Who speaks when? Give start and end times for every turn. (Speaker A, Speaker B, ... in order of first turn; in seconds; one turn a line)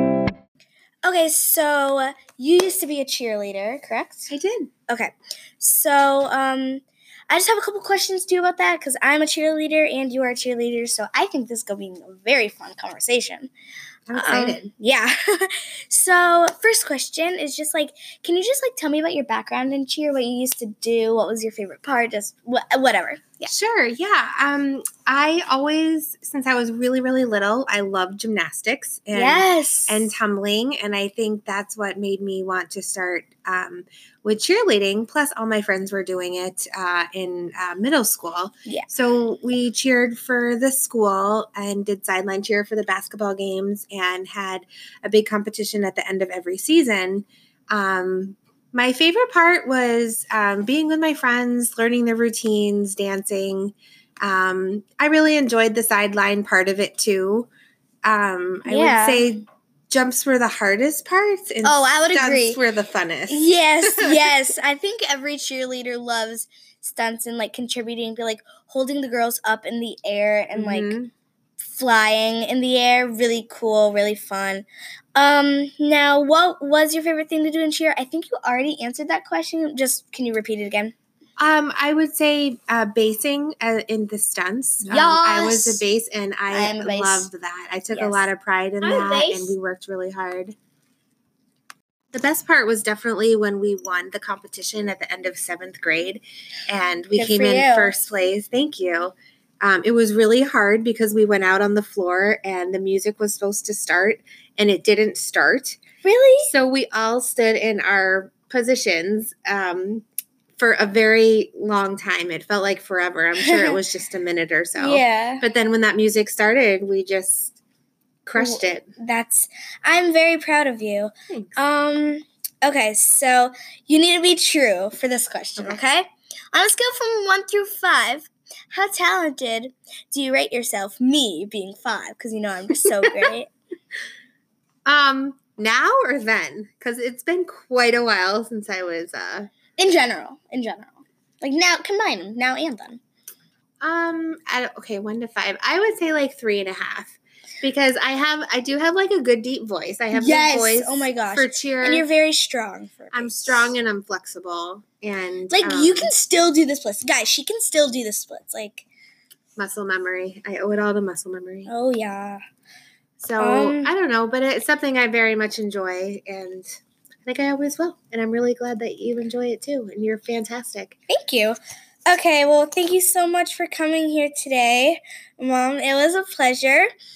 Speaker A: 1.0-4.3
Speaker B: 4.3-4.7
Speaker A: 4.9-13.5
Speaker B: 14.1-14.7
Speaker A: 14.1-23.5
Speaker B: 23.5-57.5
Speaker A: 29.1-30.1
Speaker B: 58.0-64.3
Speaker A: 58.7-59.3
Speaker A: 61.6-62.6
Speaker A: 63.3-71.0
Speaker B: 70.5-71.1
Speaker A: 71.6-80.9
Speaker B: 81.4-90.6
Speaker A: 84.8-85.9
Speaker A: 86.5-87.3
Speaker A: 87.9-88.3
Speaker A: 88.8-89.5
Speaker B: 92.1-105.8
Speaker A: 97.1-98.0
Speaker A: 106.0-106.5
Speaker B: 106.5-110.0
Speaker B: 110.6-117.6
Speaker A: 113.4-113.8
Speaker A: 114.8-115.5
Speaker B: 118.3-118.9
Speaker A: 118.4-133.5
Speaker B: 121.3-121.5
Speaker B: 125.6-125.8
Speaker B: 134.8-139.5
Speaker A: 139.8-143.0
Speaker B: 143.8-152.1
Speaker A: 150.1-153.7
Speaker B: 153.1-156.1
Speaker A: 155.5-158.8
Speaker B: 159.6-161.7
Speaker A: 161.7-162.4
Speaker B: 163.2-166.7
Speaker A: 163.4-163.9
Speaker B: 167.2-171.0
Speaker A: 171.1-176.9